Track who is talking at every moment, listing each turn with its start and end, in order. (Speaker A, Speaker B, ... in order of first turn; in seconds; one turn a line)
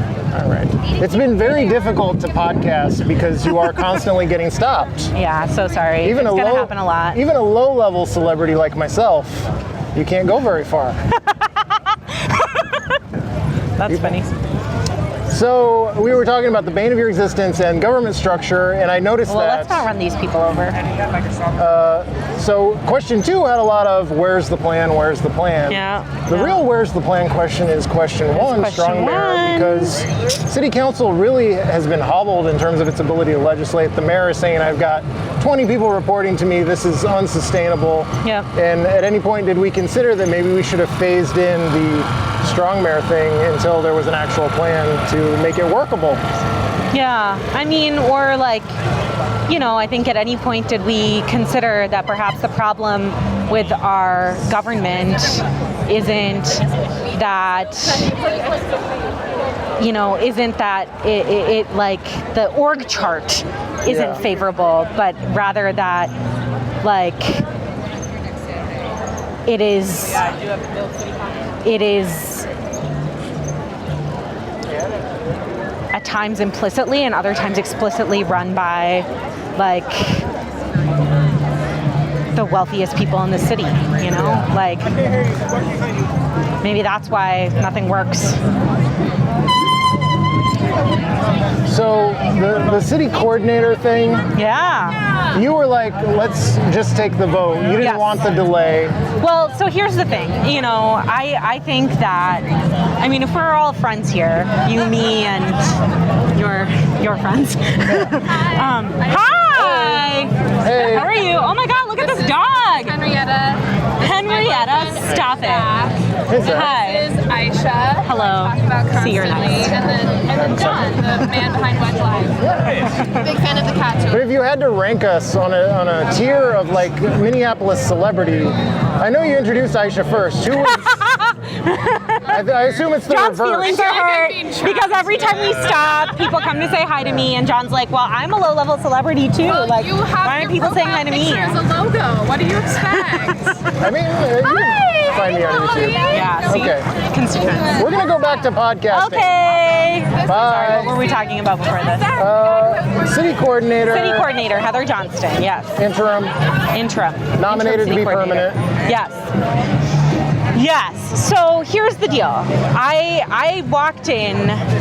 Speaker A: 0.3-5.1
Speaker B: 5.1-7.2
Speaker A: 6.0-11.0
Speaker B: 11.4-12.8
Speaker B: 13.8-14.3
Speaker A: 13.9-14.2
Speaker A: 15.3-19.9
Speaker B: 19.3-20.8
Speaker A: 21.6-46.2
Speaker B: 25.7-26.6
Speaker B: 28.3-30.1
Speaker B: 38.2-38.5
Speaker B: 46.9-48.7
Speaker B: 49.5-58.2
Speaker B: 59.8-66.1
Speaker A: 63.9-64.2
Speaker B: 66.8-67.4
Speaker B: 69.5-70.3
Speaker B: 71.6-72.5
Speaker B: 75.9-80.3
Speaker B: 82.3-84.9
Speaker A: 84.1-84.5
Speaker B: 86.6-88.4
Speaker A: 91.6-94.2
Speaker B: 94.3-95.0
Speaker A: 95.3-99.0
Speaker B: 97.8-98.2
Speaker B: 99.2-102.5
Speaker B: 103.0-105.7
Speaker B: 106.3-113.2
Speaker A: 107.8-108.3
Speaker A: 109.5-110.1
Speaker A: 110.6-111.1
Speaker C: 113.0-113.6
Speaker B: 114.0-117.2
Speaker A: 116.3-116.8
Speaker C: 117.1-122.4
Speaker B: 118.0-120.0
Speaker A: 120.2-121.0
Speaker B: 121.2-121.5
Speaker A: 122.4-122.8
Speaker B: 122.9-123.3
Speaker C: 123.4-123.9
Speaker A: 123.9-131.0
Speaker B: 130.7-132.4
Speaker A: 132.2-133.8
Speaker B: 133.0-141.7
Speaker C: 134.0-135.0
Speaker C: 139.7-143.5
Speaker B: 142.7-143.7
Speaker A: 143.7-146.9
Speaker B: 144.6-145.1
Speaker B: 145.9-147.9
Speaker A: 147.7-149.4
Speaker B: 148.9-152.2
Speaker A: 150.2-150.9
Speaker A: 152.2-154.3
Speaker B: 153.8-155.8
Speaker A: 155.8-156.3
Speaker B: 156.7-159.3
Speaker A: 157.4-158.6
Speaker B: 160.5-164.6